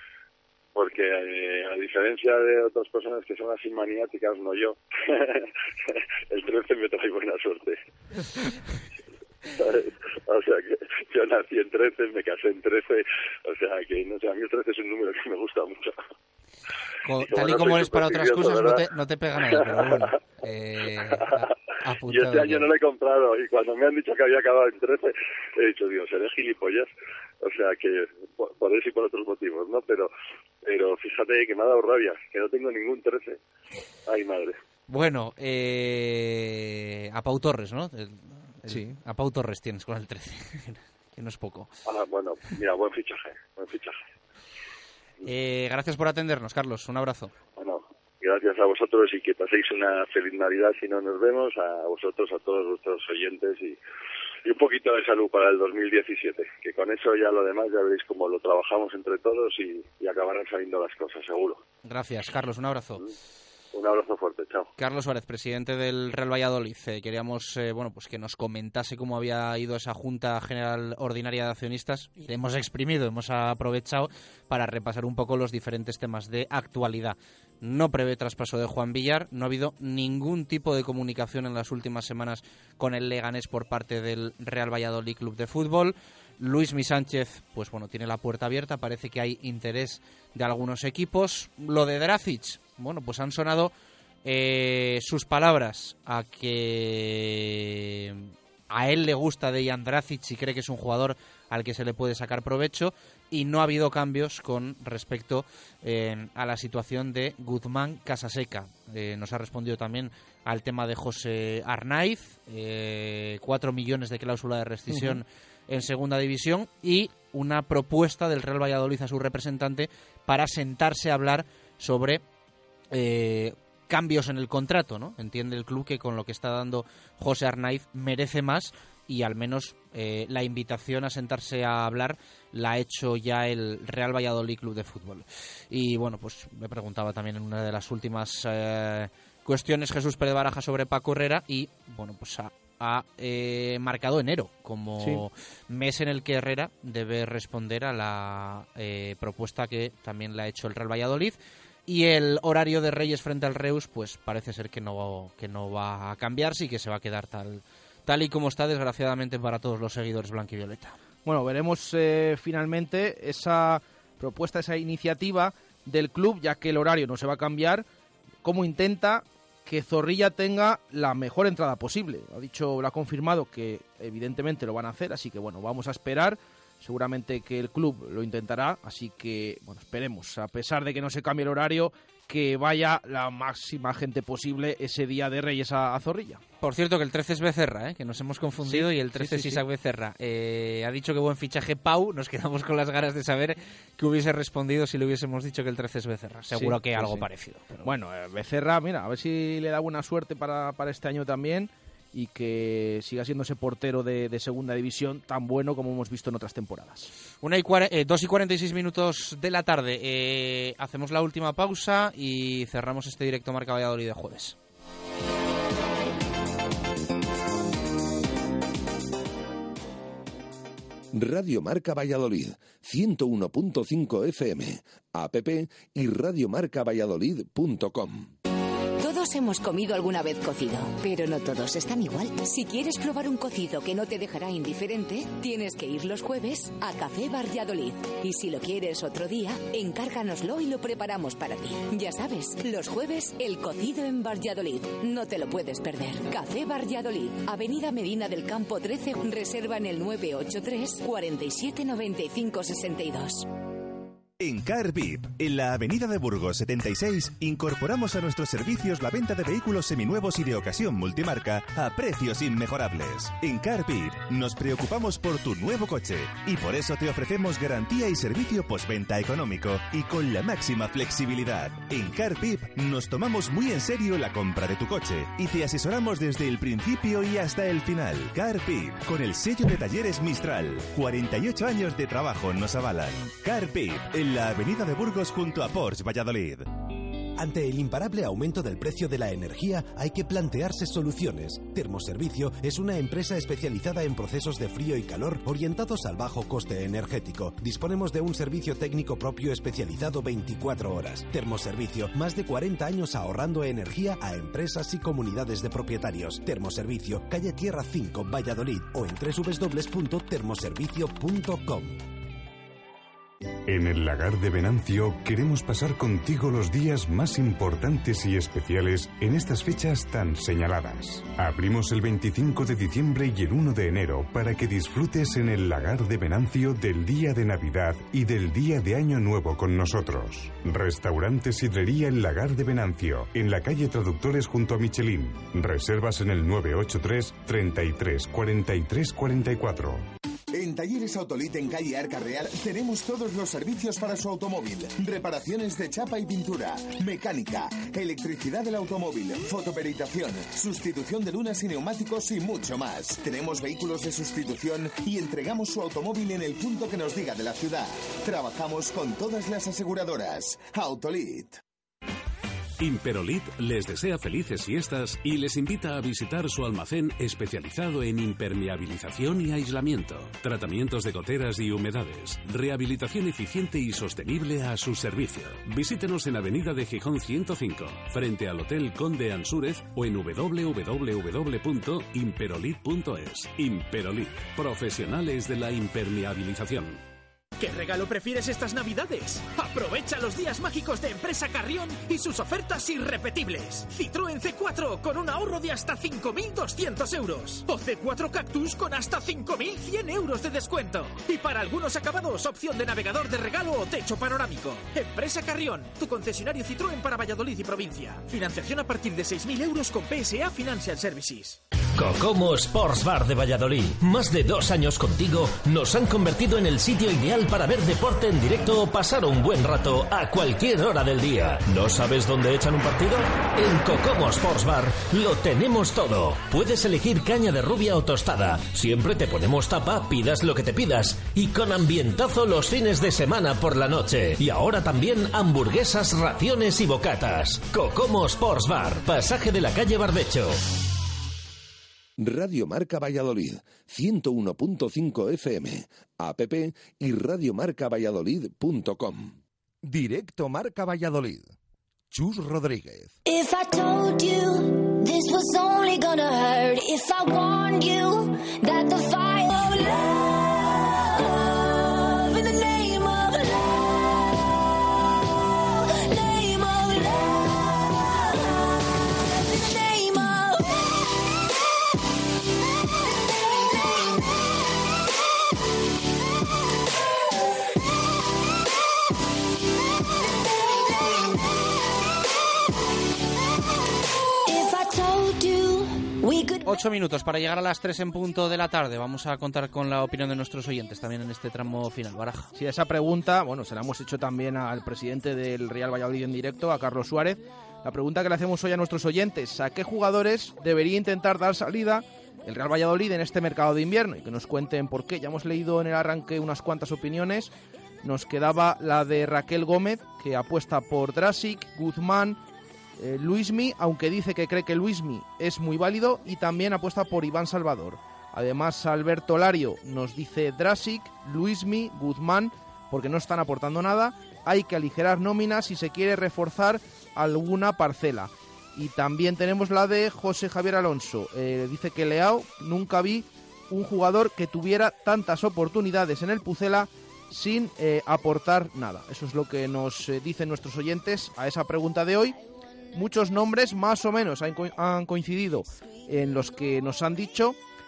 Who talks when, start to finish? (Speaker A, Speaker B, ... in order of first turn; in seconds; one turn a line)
Speaker A: 0.8-7.8
Speaker A: 9.6-16.0
Speaker B: 17.0-22.7
Speaker A: 17.2-18.8
Speaker A: 19.4-20.1
Speaker A: 21.1-21.5
Speaker A: 22.1-26.9
Speaker A: 27.4-30.1
Speaker A: 30.6-33.4
Speaker A: 34.1-34.6
Speaker B: 34.9-41.7
Speaker A: 41.9-44.0
Speaker B: 45.2-47.3
Speaker A: 47.6-53.8
Speaker A: 54.5-61.6
Speaker B: 61.9-63.0
Speaker A: 63.7-64.7
Speaker B: 64.8-93.7
Speaker B: 94.2-122.2
Speaker C: 114.9-115.2
Speaker B: 122.9-161.0
Speaker C: 161.2-167.8
Speaker C: 168.4-186.4
Speaker B: 186.6-197.9
Speaker C: 188.6-189.6
Speaker C: 196.5-197.2
Speaker C: 197.8-207.1
Speaker B: 207.4-214.6
Speaker D: 221.1-228.3
Speaker E: 229.0-253.5
Speaker F: 254.4-286.7
Speaker G: 287.4-312.1
Speaker H: 313.7-340.1
Speaker I: 340.5-361.6
Speaker J: 362.8-387.0
Speaker K: 387.6-411.6
Speaker L: 412.0-440.6
Speaker D: 442.2-451.5
Speaker D: 452.1-453.1
Speaker B: 486.6-492.5
Speaker C: 492.6-507.5
Speaker C: 508.0-512.4
Speaker C: 513.0-542.4
Speaker C: 542.9-547.6